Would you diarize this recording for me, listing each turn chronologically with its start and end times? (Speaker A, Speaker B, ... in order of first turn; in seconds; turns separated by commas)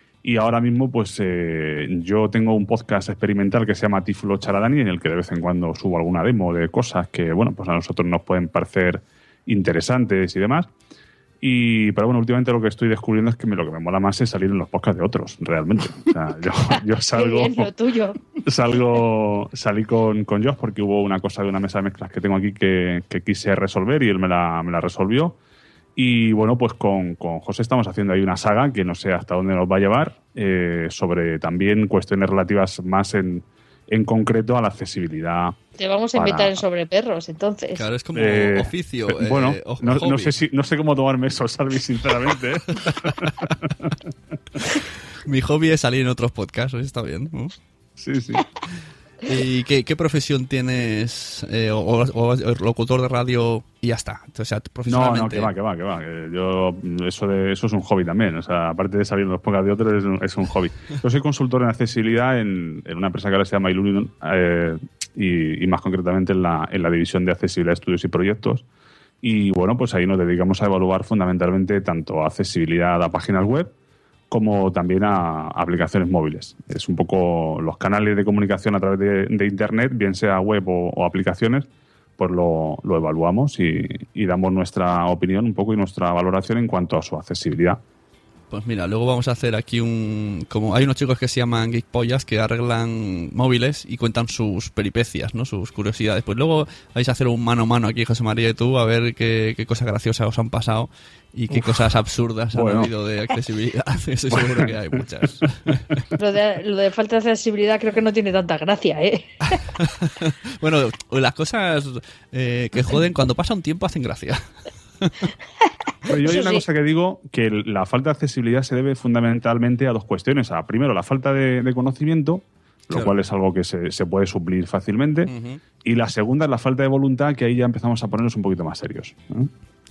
Speaker A: 0.2-10.7, Speaker A: 11.4-17.7, Speaker B: 17.1-18.2, Speaker A: 18.4-25.4, Speaker A: 25.9-35.6, Speaker B: 35.8-37.8, Speaker A: 36.1-36.6, Speaker C: 37.8-40.3, Speaker A: 38.1-44.0, Speaker C: 45.2-47.5, Speaker A: 48.0-48.5, Speaker C: 49.2-55.5, Speaker A: 54.9-68.6, Speaker A: 69.2-73.7, Speaker A: 74.3-81.7, Speaker A: 82.2-87.8, Speaker C: 88.5-106.0, Speaker A: 101.5-101.9, Speaker A: 102.5-102.9, Speaker A: 104.3-104.7, Speaker B: 106.2-109.6, Speaker C: 110.0-114.4, Speaker C: 115.0-115.3, Speaker A: 116.0-125.3, Speaker B: 116.3-116.6, Speaker C: 125.3-125.6, Speaker A: 125.8-129.5